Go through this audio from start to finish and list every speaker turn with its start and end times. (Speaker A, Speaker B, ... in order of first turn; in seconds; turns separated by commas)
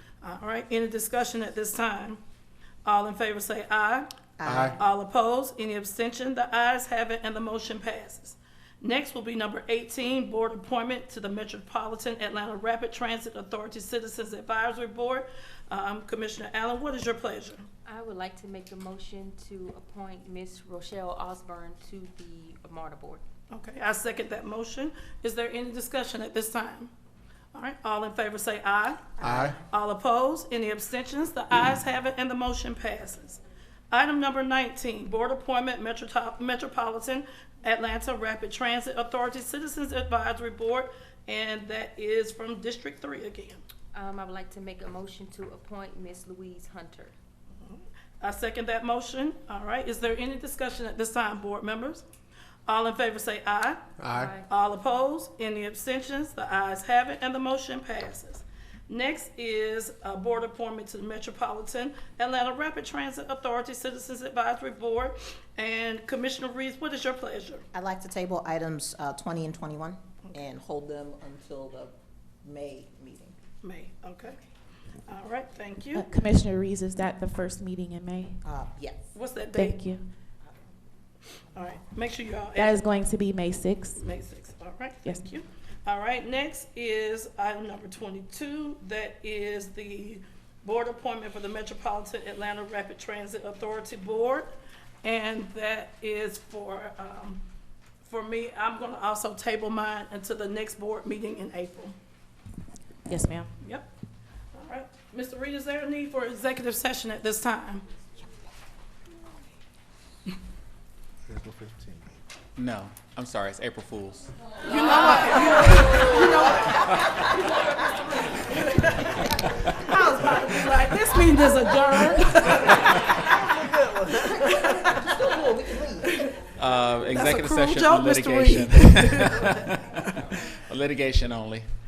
Speaker A: 0.2-2.2, Speaker A: 2.8-4.1, Speaker B: 4.4-4.8, Speaker C: 4.5-4.8, Speaker A: 4.7-17.6, Speaker D: 17.9-23.2, Speaker A: 23.5-26.9, Speaker A: 27.5-43.6, Speaker C: 29.2-29.6, Speaker D: 43.9-47.1, Speaker A: 47.7-52.0, Speaker A: 52.7-53.9, Speaker C: 54.0-54.3, Speaker D: 54.1-54.5, Speaker A: 54.5-67.6, Speaker B: 67.7-73.3, Speaker A: 73.6-74.4, Speaker A: 75.0-76.1, Speaker E: 75.9-78.4, Speaker B: 78.4-79.1, Speaker A: 79.1-79.9, Speaker E: 79.5-80.1, Speaker A: 81.5-82.9, Speaker E: 82.5-84.0, Speaker A: 83.9-94.5, Speaker A: 95.0-97.4, Speaker A: 98.0-101.9, Speaker E: 103.1-103.5, Speaker A: 103.6-103.9, Speaker A: 104.5-107.8, Speaker C: 111.3-112.1, Speaker F: 112.5-114.3, Speaker A: 114.6-117.5, Speaker A: 118.5-123.5, Speaker B: 119.9-120.8, Speaker B: 124.1-126.2, Speaker A: 124.1-125.1, Speaker A: 126.0-126.4, Speaker F: 126.6-129.9, Speaker A: 127.1-130.5, Speaker F: 130.5-131.7